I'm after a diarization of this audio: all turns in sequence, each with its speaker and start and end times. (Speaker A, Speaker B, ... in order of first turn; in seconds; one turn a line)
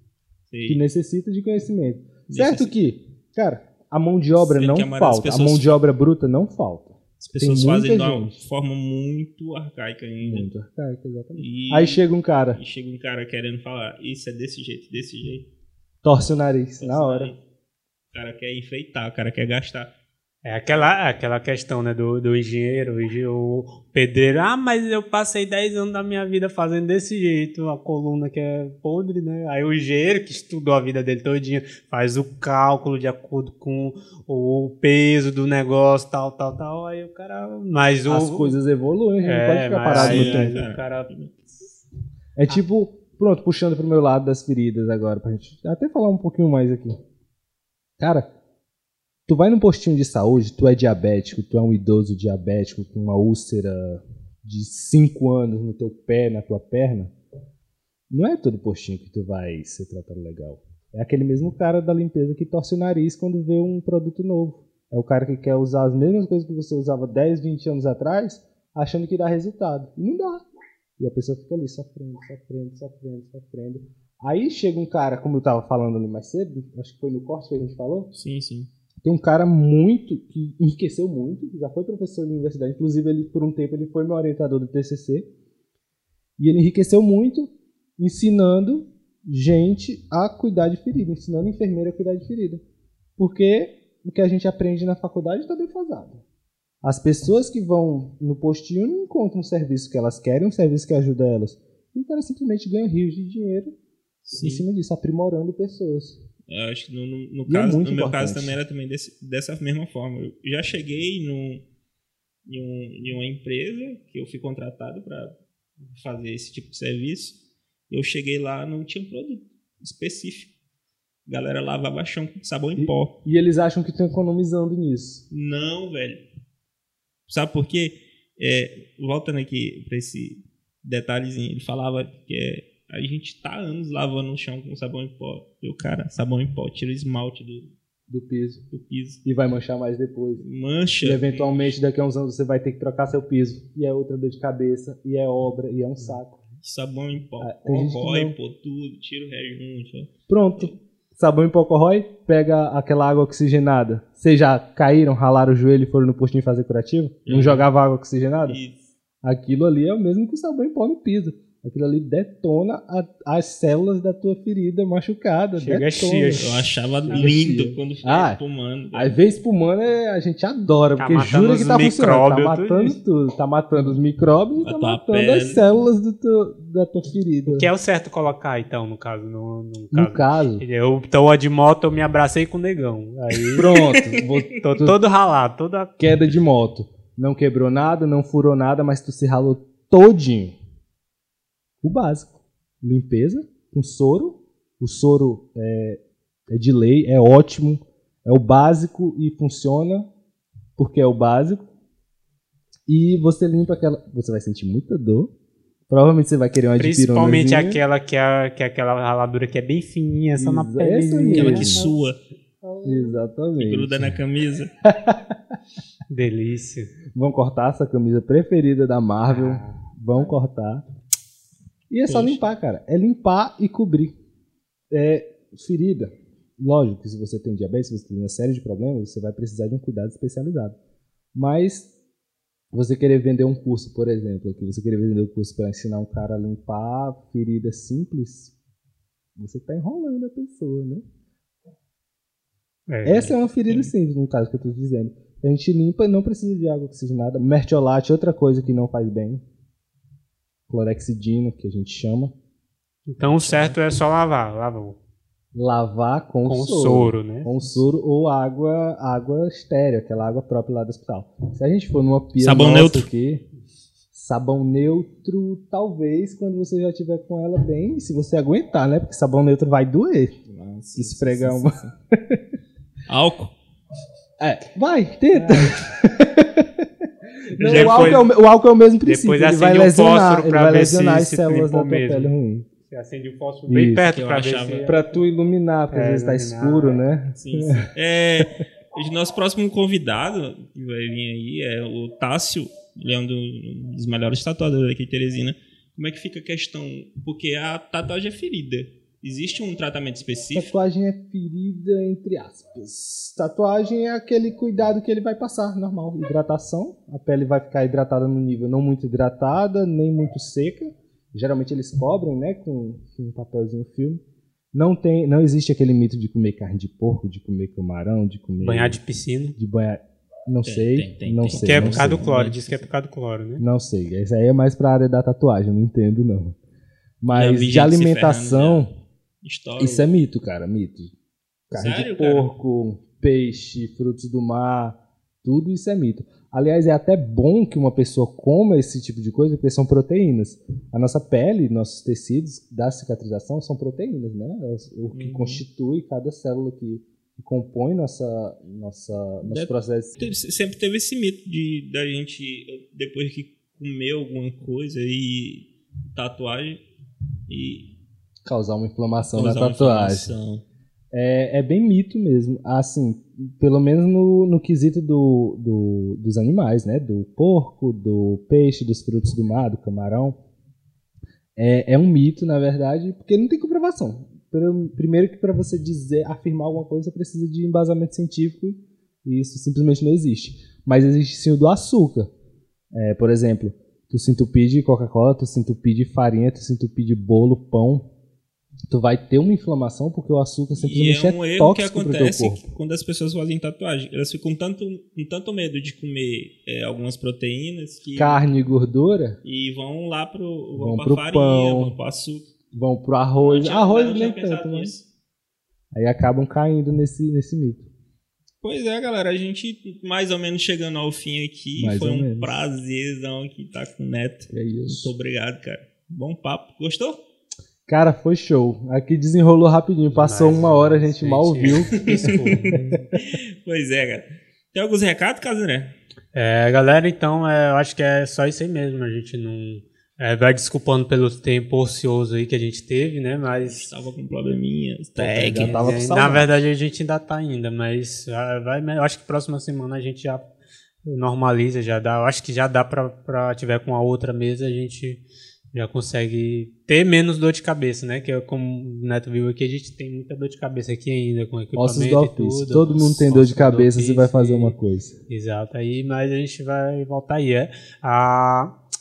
Speaker A: 0.5-0.8
Speaker B: 0.7-8.4
Speaker A: 2.3-2.7
Speaker A: 4.4-5.8
Speaker A: 7.2-10.5
Speaker B: 10.2-12.6
Speaker A: 11.4-12.0
Speaker A: 12.5-15.5
Speaker B: 16.0-17.3
Speaker A: 16.8-17.4
Speaker A: 18.1-19.9
Speaker C: 20.4-38.5
Speaker B: 38.1-40.6
Speaker C: 39.2-41.1
Speaker A: 39.9-41.4
Speaker B: 42.4-47.0
Speaker B: 48.0-48.3
Speaker B: 49.3-57.1
Speaker B: 58.1-70.4
Speaker B: 71.0-78.1
Speaker A: 78.1-78.7
Speaker B: 79.0-85.3
Speaker B: 86.4-92.6
Speaker B: 93.2-96.2
Speaker B: 96.8-103.7
Speaker A: 104.3-104.7
Speaker B: 104.3-106.2
Speaker A: 106.5-111.6
Speaker B: 107.5-108.6
Speaker A: 112.5-117.4
Speaker A: 117.9-120.5
Speaker A: 121.3-123.2
Speaker B: 122.8-125.2
Speaker A: 125.3-126.2
Speaker A: 127.3-137.7
Speaker B: 138.1-138.6
Speaker A: 138.7-139.2
Speaker B: 139.2-140.4
Speaker A: 140.4-141.8
Speaker B: 141.0-146.4
Speaker A: 146.6-150.8
Speaker B: 147.4-148.4
Speaker B: 150.3-158.6
Speaker A: 157.3-157.7
Speaker A: 158.5-158.8
Speaker B: 159.2-166.4
Speaker C: 165.6-167.3
Speaker A: 166.3-169.1
Speaker B: 167.1-168.4
Speaker B: 168.9-177.7
Speaker C: 171.0-173.0
Speaker A: 174.6-175.6
Speaker C: 177.5-183.9
Speaker B: 179.9-180.6
Speaker B: 183.6-185.0
Speaker A: 183.6-184.5
Speaker C: 184.6-186.0
Speaker B: 186.0-190.6
Speaker B: 191.8-200.1
Speaker B: 200.8-201.7
Speaker B: 202.9-205.3
Speaker B: 205.9-207.8
Speaker C: 206.8-211.9
Speaker B: 210.4-211.9
Speaker A: 211.3-212.2
Speaker C: 212.6-213.3
Speaker B: 212.8-214.2
Speaker A: 213.6-214.7
Speaker B: 214.8-215.5
Speaker C: 216.1-216.9
Speaker B: 217.1-220.8
Speaker C: 219.3-220.3
Speaker B: 221.9-224.1
Speaker C: 222.1-222.3
Speaker B: 224.9-230.8
Speaker B: 231.3-231.9
Speaker B: 232.7-238.5
Speaker B: 239.4-241.0
Speaker C: 242.9-243.4
Speaker B: 243.1-249.4
Speaker B: 250.7-252.3
Speaker C: 253.1-255.0
Speaker A: 253.2-253.8
Speaker B: 255.5-263.4
Speaker C: 256.4-257.8
Speaker A: 262.4-263.1
Speaker B: 264.1-270.4
Speaker A: 270.5-271.9
Speaker B: 271.0-272.4
Speaker A: 273.1-273.5
Speaker B: 274.4-276.9
Speaker B: 277.6-282.7
Speaker C: 277.6-278.3
Speaker A: 277.6-278.3
Speaker C: 279.1-285.1
Speaker B: 283.7-284.1
Speaker A: 284.1-284.9
Speaker B: 284.8-287.9
Speaker C: 285.9-287.0
Speaker A: 287.4-300.8
Speaker B: 300.5-314.2
Speaker B: 314.7-319.0
Speaker C: 318.6-319.6
Speaker B: 319.6-322.2
Speaker A: 320.6-322.9
Speaker C: 321.6-323.6
Speaker B: 323.6-326.6
Speaker B: 327.2-328.9
Speaker A: 327.3-328.9
Speaker A: 329.4-330.1
Speaker B: 329.8-331.1
Speaker B: 331.7-350.2
Speaker A: 331.7-332.5
Speaker A: 345.1-345.6
Speaker A: 349.5-356.8
Speaker A: 357.5-357.9
Speaker B: 358.4-360.3
Speaker A: 359.4-360.6
Speaker B: 361.1-370.4
Speaker B: 371.6-382.3
Speaker B: 382.9-388.1
Speaker B: 388.9-392.6
Speaker A: 390.7-398.5
Speaker B: 398.2-399.4
Speaker A: 399.4-402.5
Speaker B: 400.8-402.0
Speaker B: 402.7-404.9
Speaker A: 403.4-405.1
Speaker B: 405.9-407.9
Speaker A: 408.6-417.2
Speaker B: 411.8-412.7
Speaker B: 414.5-415.1
Speaker B: 417.9-423.2
Speaker C: 420.1-423.1
Speaker A: 421.8-425.9
Speaker C: 426.3-433.9
Speaker A: 433.6-436.0
Speaker B: 435.2-436.5
Speaker C: 435.5-440.5
Speaker C: 441.1-445.2
Speaker C: 445.7-454.8
Speaker B: 451.8-455.1
Speaker C: 455.3-458.7